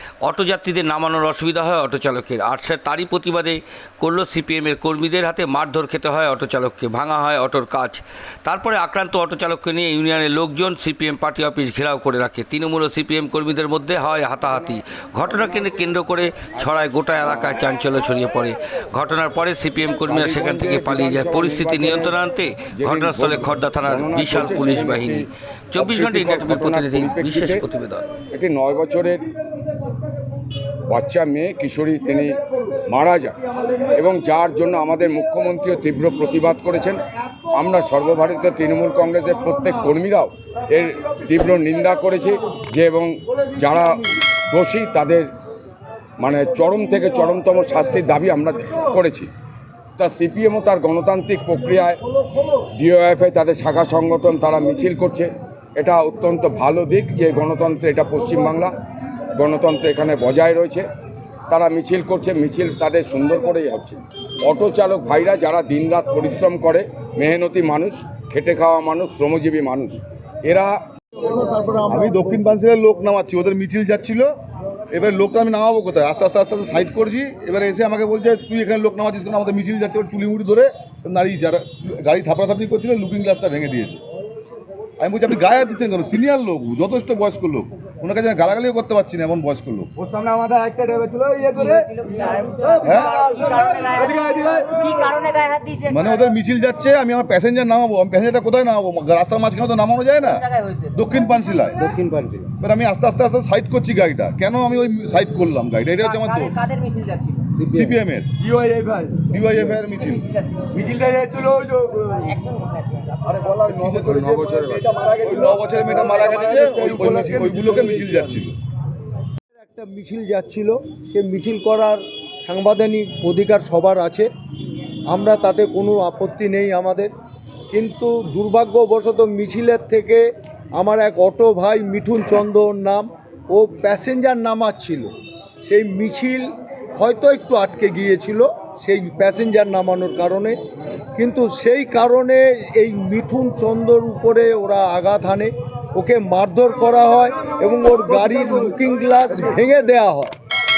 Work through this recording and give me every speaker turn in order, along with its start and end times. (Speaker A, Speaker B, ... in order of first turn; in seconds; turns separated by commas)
Speaker A: 0.2-28.1, Speaker B: 15.3-15.8, Speaker B: 16.6-17.6, Speaker B: 20.1-22.2, Speaker B: 22.8-27.6, Speaker B: 28.3-29.2, Speaker B: 30.9-33.4, Speaker B: 34.0-37.0, Speaker B: 37.5-45.3, Speaker B: 46.2-49.3, Speaker B: 50.0-52.0, Speaker B: 52.8-58.7, Speaker B: 59.4-60.9, Speaker B: 61.5-70.8, Speaker C: 71.2-72.4, Speaker D: 71.9-74.3, Speaker D: 74.9-84.0, Speaker D: 85.0-89.9, Speaker E: 90.0-95.1, Speaker F: 91.6-96.2, Speaker D: 92.8-93.2, Speaker D: 95.9-102.0, Speaker F: 100.2-100.9, Speaker E: 102.1-102.5, Speaker D: 102.6-106.6, Speaker F: 106.0-107.6, Speaker D: 107.6-108.3, Speaker E: 108.4-109.3, Speaker D: 109.2-110.2, Speaker F: 109.9-110.8, Speaker E: 110.7-112.4, Speaker F: 112.2-113.5, Speaker E: 113.2-118.4, Speaker B: 113.5-115.0, Speaker D: 115.2-118.6, Speaker C: 119.6-124.3, Speaker C: 125.1-127.1, Speaker C: 127.7-130.2, Speaker C: 130.8-135.1, Speaker C: 135.6-136.5, Speaker C: 137.0-140.6, Speaker C: 141.2-150.3, Speaker E: 148.1-148.8